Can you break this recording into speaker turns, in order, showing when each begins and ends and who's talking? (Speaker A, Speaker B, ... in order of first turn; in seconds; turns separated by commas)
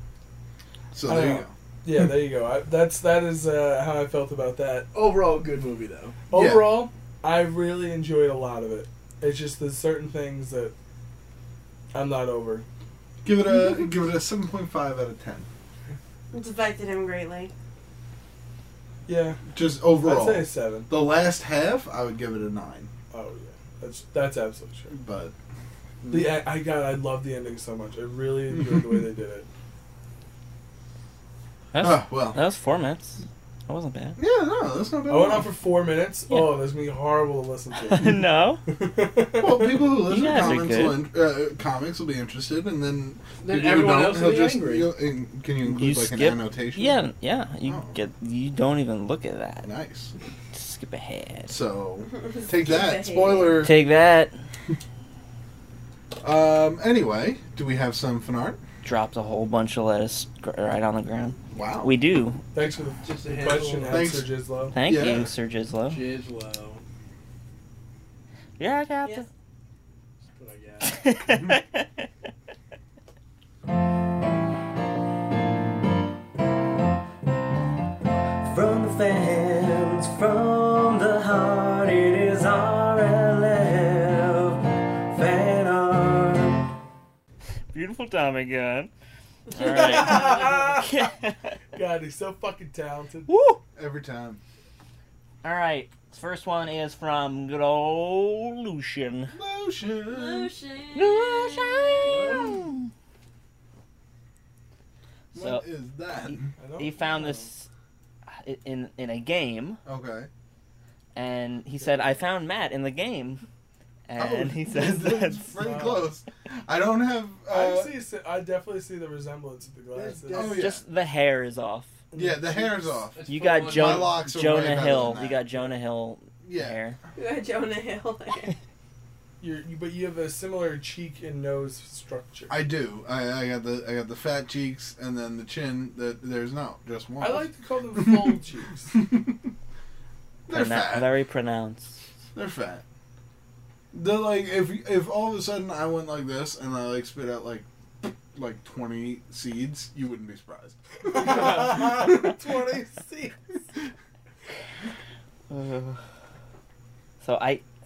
Speaker A: 0.9-1.5, Speaker B: 1.0-4.9, Speaker C: 4.9-6.2, Speaker B: 6.3-10.7, Speaker A: 6.3-6.9, Speaker B: 11.9-12.7, Speaker A: 13.2-15.5, Speaker D: 16.3-17.5, Speaker B: 19.1-19.4, Speaker A: 19.5-22.9, Speaker B: 20.0-20.9, Speaker B: 23.1-24.9, Speaker A: 24.9-25.3, Speaker A: 26.0-26.4, Speaker B: 26.1-29.5, Speaker A: 28.5-29.0, Speaker E: 31.7-34.2, Speaker A: 31.8-32.4, Speaker A: 34.2-35.5, Speaker B: 35.1-39.9, Speaker E: 36.3-36.6, Speaker E: 37.9-38.6, Speaker A: 39.4-47.0, Speaker E: 40.0-41.0, Speaker C: 43.4-44.9, Speaker E: 45.6-49.7, Speaker A: 47.6-48.0, Speaker A: 49.6-50.1, Speaker E: 50.5-51.5, Speaker A: 51.5-53.7, Speaker D: 52.1-53.6, Speaker E: 53.6-54.3, Speaker A: 56.2-58.6, Speaker E: 58.8-62.4, Speaker A: 61.5-61.9, Speaker B: 62.5-64.8, Speaker C: 63.0-64.1, Speaker A: 63.9-65.3, Speaker E: 64.7-66.0, Speaker C: 65.9-66.8, Speaker E: 68.6-69.3, Speaker C: 70.3-71.0, Speaker E: 70.8-72.0, Speaker F: 78.4-86.7, Speaker E: 87.7-88.9, Speaker E: 89.5-91.5, Speaker B: 89.5-91.0, Speaker B: 91.7-93.3, Speaker E: 93.3-93.6, Speaker A: 93.8-94.4, Speaker E: 95.4-99.3, Speaker A: 99.3-100.5, Speaker D: 100.1-102.6, Speaker E: 100.9-102.9, Speaker C: 102.1-102.6, Speaker E: 105.3-105.6, Speaker A: 105.3-106.5, Speaker E: 106.3-107.7, Speaker B: 106.6-107.5, Speaker E: 108.3-109.8, Speaker A: 109.8-110.3, Speaker E: 111.1-113.4, Speaker E: 114.1-115.5, Speaker A: 114.2-118.0, Speaker B: 115.5-116.1, Speaker B: 117.5-120.6, Speaker C: 119.9-120.6, Speaker A: 120.3-120.8, Speaker E: 120.4-122.0, Speaker B: 122.1-123.1, Speaker A: 122.1-125.5, Speaker C: 123.2-124.2, Speaker E: 123.3-127.0, Speaker A: 126.4-126.8, Speaker D: 127.1-128.5, Speaker B: 129.4-132.5, Speaker A: 132.5-138.3, Speaker B: 137.2-138.9, Speaker A: 138.9-139.5, Speaker A: 140.5-141.2, Speaker E: 140.5-142.0, Speaker A: 142.3-142.8, Speaker A: 143.9-152.4, Speaker B: 151.1-153.3, Speaker E: 155.5-156.0, Speaker E: 157.2-157.7